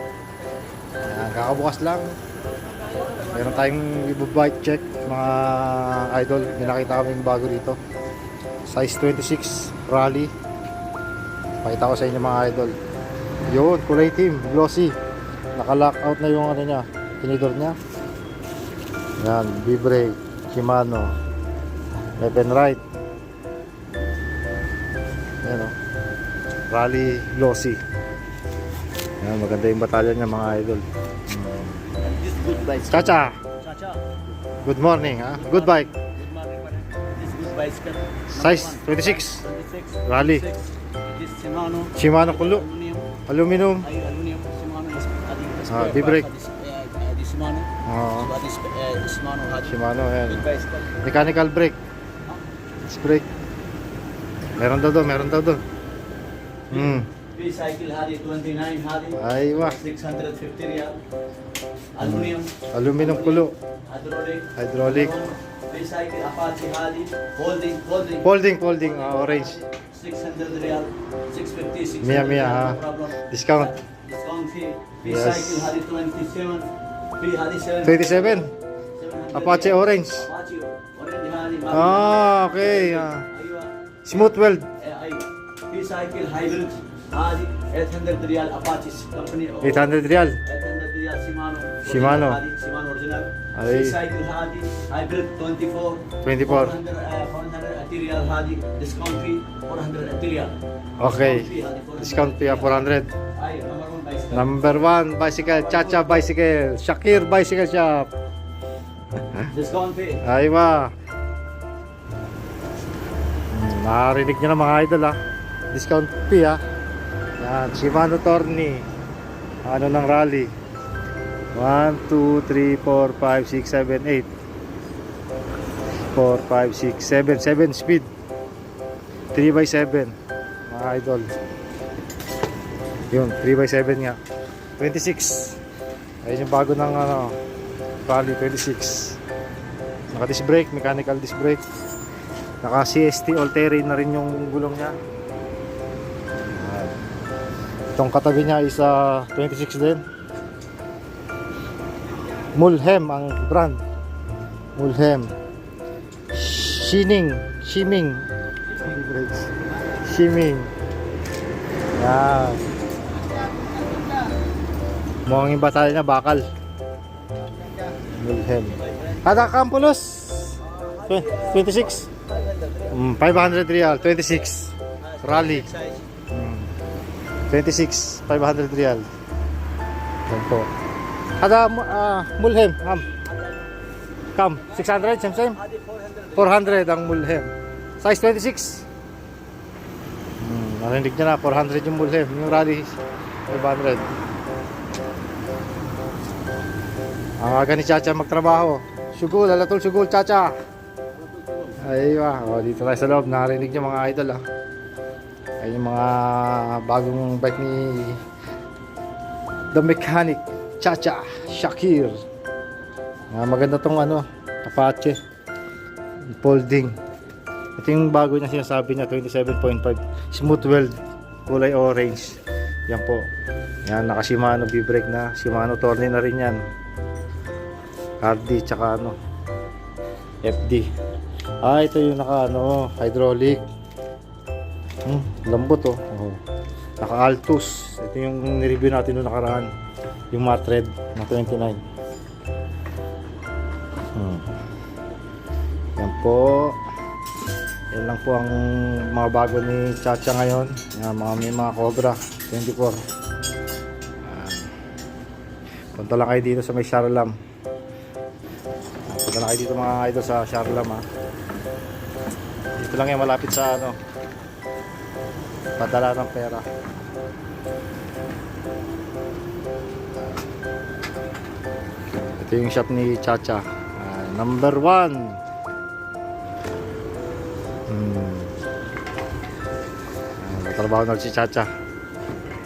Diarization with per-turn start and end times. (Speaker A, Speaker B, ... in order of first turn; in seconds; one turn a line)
Speaker A: 1.0-2.1
Speaker A: 3.3-7.8
Speaker A: 8.7-10.3
Speaker A: 11.6-12.7
Speaker A: 13.5-15.0
Speaker A: 15.6-17.8
Speaker A: 19.2-21.1
Speaker A: 22.2-22.8
Speaker A: 25.4-25.8
Speaker A: 26.7-27.8
Speaker A: 29.2-31.8
Speaker B: 31.9-34.0
Speaker A: 32.9-33.4
Speaker A: 34.6-35.9
Speaker B: 35.3-43.2
Speaker A: 38.3-39.5
Speaker A: 40.1-40.5
Speaker A: 42.0-42.6
Speaker A: 43.3-43.9
Speaker B: 43.8-51.2
Speaker A: 45.7-46.3
Speaker A: 47.9-48.3
Speaker A: 49.6-50.5
Speaker A: 51.0-51.8
Speaker A: 52.9-53.3
Speaker A: 54.6-55.6
Speaker A: 56.7-57.1
Speaker B: 56.7-61.0
Speaker A: 59.2-59.8
Speaker B: 62.0-104.8
Speaker A: 62.0-63.5
Speaker A: 64.6-65.2
Speaker A: 68.2-69.6
Speaker A: 72.0-73.7
Speaker A: 75.0-75.7
Speaker A: 77.8-78.5
Speaker A: 79.3-80.2
Speaker A: 81.7-83.2
Speaker A: 84.1-84.7
Speaker A: 89.6-90.4
Speaker A: 91.8-92.4
Speaker A: 93.6-94.0
Speaker A: 96.2-96.8
Speaker A: 101.0-103.1
Speaker A: 104.3-108.1
Speaker B: 105.4-106.3
Speaker B: 109.5-110.2
Speaker A: 110.2-110.9
Speaker A: 113.5-115.2
Speaker A: 115.7-116.6
Speaker A: 117.4-118.9
Speaker A: 119.7-120.5
Speaker A: 121.5-124.3
Speaker A: 126.1-128.1
Speaker A: 129.3-130.2
Speaker A: 130.7-131.3
Speaker A: 133.1-134.2
Speaker A: 134.8-135.6
Speaker A: 136.2-137.3
Speaker A: 138.1-139.2
Speaker A: 140.1-141.6
Speaker A: 142.6-145.0
Speaker A: 146.5-146.9
Speaker A: 148.0-150.0
Speaker A: 152.5-153.8
Speaker A: 154.8-155.3
Speaker A: 156.3-160.7
Speaker A: 161.9-162.7
Speaker A: 165.3-166.4
Speaker A: 168.1-172.1
Speaker B: 168.6-169.5
Speaker B: 170.6-173.1
Speaker A: 172.9-175.7
Speaker B: 175.0-176.1
Speaker A: 176.3-176.7
Speaker A: 177.5-179.1
Speaker A: 180.3-180.7
Speaker A: 181.4-183.1
Speaker B: 183.2-183.7
Speaker A: 184.3-185.6
Speaker B: 185.5-186.9
Speaker A: 186.4-188.9
Speaker A: 190.4-194.1
Speaker A: 197.4-200.5
Speaker B: 201.2-201.8
Speaker A: 201.8-204.4
Speaker A: 205.6-208.2
Speaker A: 209.7-212.2
Speaker A: 213.3-215.2
Speaker A: 216.4-217.0
Speaker A: 217.8-223.2
Speaker A: 223.9-226.6
Speaker A: 228.2-229.2
Speaker A: 230.4-230.9
Speaker A: 231.6-233.6
Speaker A: 235.1-236.4
Speaker A: 237.0-239.7
Speaker A: 240.3-241.8
Speaker A: 244.2-244.5
Speaker A: 246.0-246.8
Speaker A: 247.9-253.0
Speaker A: 254.2-254.7
Speaker A: 255.9-257.3
Speaker A: 259.1-261.1
Speaker A: 262.8-264.0
Speaker A: 265.8-266.7
Speaker A: 272.1-275.4
Speaker A: 277.9-278.6
Speaker A: 280.4-281.7